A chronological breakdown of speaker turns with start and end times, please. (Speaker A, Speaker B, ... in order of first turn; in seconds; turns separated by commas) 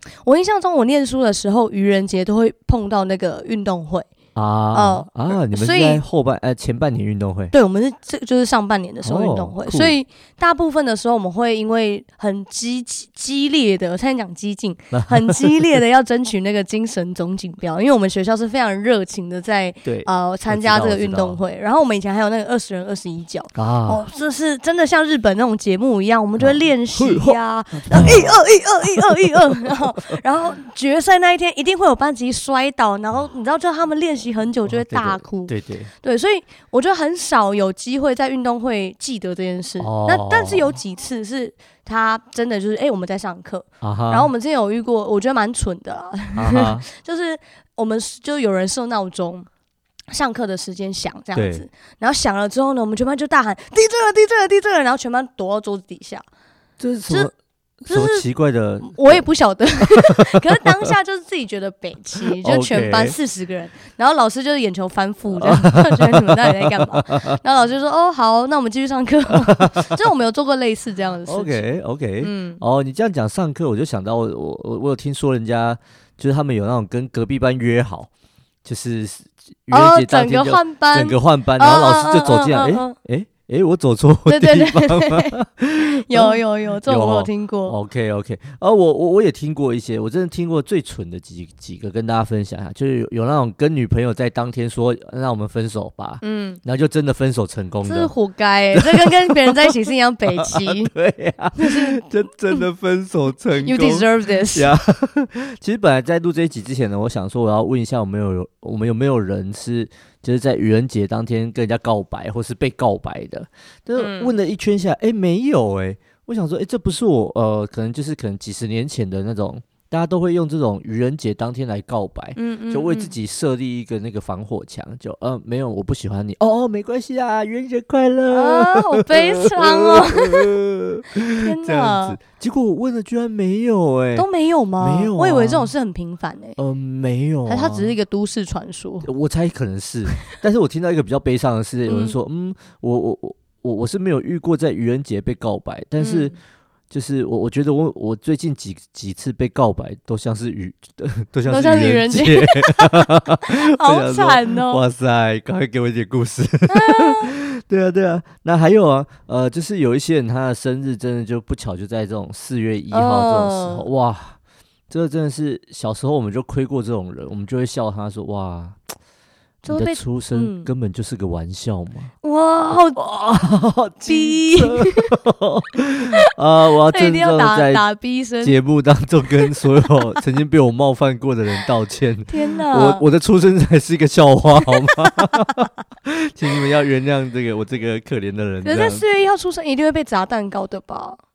Speaker A: 0.2-4.1, Speaker B: 4.3-7.5, Speaker A: 4.7-6.0, Speaker A: 7.5-49.5, Speaker B: 9.0-9.9, Speaker B: 14.9-15.8, Speaker B: 19.8-21.4, Speaker B: 23.6-24.0, Speaker B: 26.4-30.2, Speaker B: 34.7-35.9, Speaker B: 39.8-40.8, Speaker B: 43.8-44.3, Speaker B: 46.4-46.8, Speaker A: 50.1-56.2, Speaker B: 51.3-51.7, Speaker B: 56.8-57.3, Speaker A: 57.9-58.2, Speaker B: 57.9-59.2, Speaker A: 58.8-71.7, Speaker B: 62.4-63.2, Speaker B: 65.3-67.4, Speaker B: 69.4-70.0, Speaker B: 71.3-78.1, Speaker A: 72.2-72.6, Speaker B: 78.6-98.1, Speaker A: 79.7-83.0, Speaker A: 84.3-87.8, Speaker A: 96.2-96.6, Speaker A: 97.8-100.9, Speaker B: 98.7-99.7, Speaker B: 100.3-134.3, Speaker A: 101.6-102.0, Speaker A: 103.6-104.7, Speaker A: 114.0-114.3, Speaker A: 122.4-123.1, Speaker A: 128.3-130.5, Speaker A: 131.4-132.2, Speaker A: 134.1-136.6, Speaker B: 134.8-135.7, Speaker B: 136.6-137.9, Speaker A: 137.4-139.1, Speaker B: 139.0-146.3, Speaker A: 141.9-142.2, Speaker A: 146.0-146.3, Speaker B: 146.9-164.4, Speaker A: 151.4-154.8, Speaker A: 156.7-157.3, Speaker A: 162.9-163.9, Speaker B: 164.9-168.8, Speaker A: 169.6-170.7, Speaker B: 169.7-172.1, Speaker A: 172.2-173.0, Speaker B: 172.9-177.8, Speaker A: 174.1-175.1, Speaker A: 176.9-178.6, Speaker B: 178.4-189.1, Speaker A: 182.3-183.1, Speaker A: 184.8-185.3, Speaker A: 188.6-191.2